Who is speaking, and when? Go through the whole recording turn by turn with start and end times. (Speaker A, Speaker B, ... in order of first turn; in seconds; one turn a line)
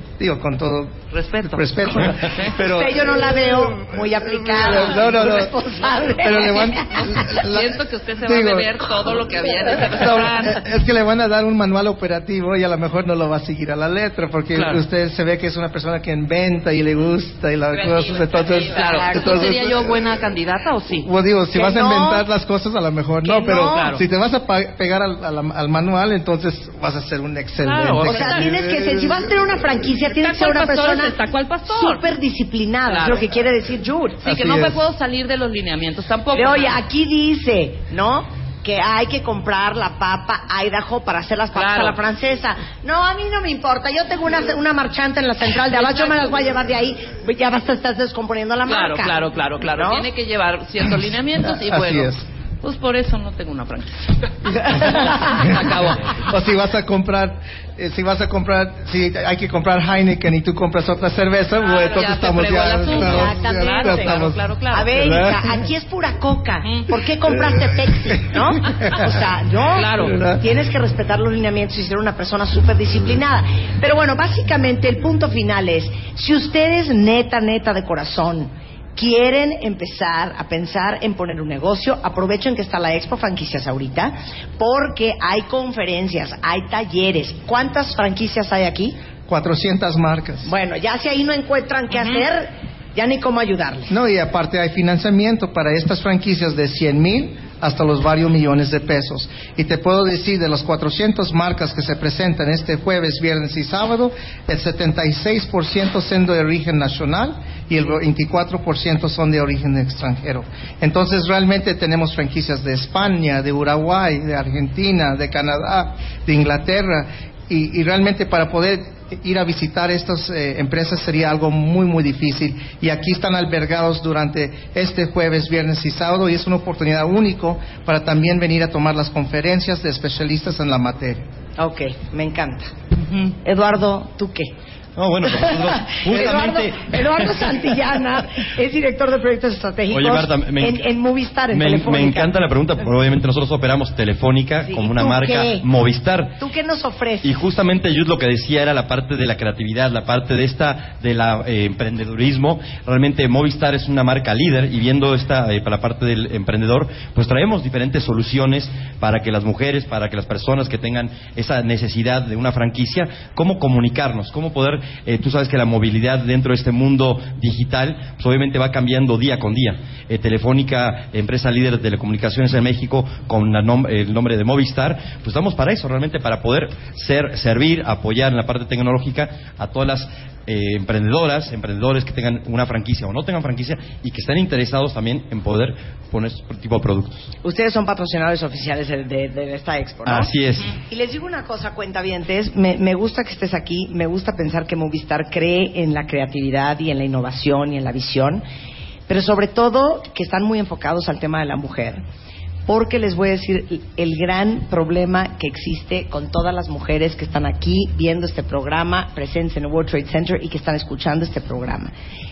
Speaker A: 0.2-9.3
Speaker B: 1.1-2.6
Speaker C: 2.5-7.0
Speaker B: 6.9-10.6
Speaker A: 9.9-20.3
Speaker B: 14.5-14.8
Speaker B: 18.6-21.1
Speaker C: 18.8-19.2
Speaker A: 21.0-29.3
Speaker C: 21.5-22.2
Speaker C: 23.2-23.9
Speaker B: 23.4-24.0
Speaker B: 27.6-28.5
Speaker C: 28.0-34.2
Speaker B: 30.1-32.0
Speaker B: 32.9-33.2
Speaker B: 34.2-36.8
Speaker A: 34.2-34.8
Speaker C: 36.3-50.1
Speaker B: 41.5-42.0
Speaker B: 45.7-46.3
Speaker B: 48.7-56.2
Speaker A: 51.5-52.2
Speaker C: 54.7-55.1
Speaker A: 55.5-64.4
Speaker B: 61.6-64.9
Speaker C: 62.8-89.0
Speaker A: 64.9-65.7
Speaker B: 66.6-66.9
Speaker A: 67.4-69.1
Speaker B: 69.7-70.2
Speaker A: 70.0-70.4
Speaker A: 89.3-90.5
Speaker C: 90.4-93.9
Speaker A: 93.9-131.2
Speaker C: 131.6-132.7
Speaker B: 133.1-133.3
Speaker C: 133.4-134.5
Speaker D: 135.0-137.1
Speaker C: 135.2-142.3
Speaker D: 139.9-140.8
Speaker D: 141.5-146.4
Speaker C: 144.7-145.7
Speaker C: 146.4-147.5
Speaker D: 147.2-187.3
Speaker C: 187.4-190.3
Speaker D: 190.1-190.7
Speaker C: 190.9-198.4
Speaker C: 199.1-202.0
Speaker C: 202.7-211.9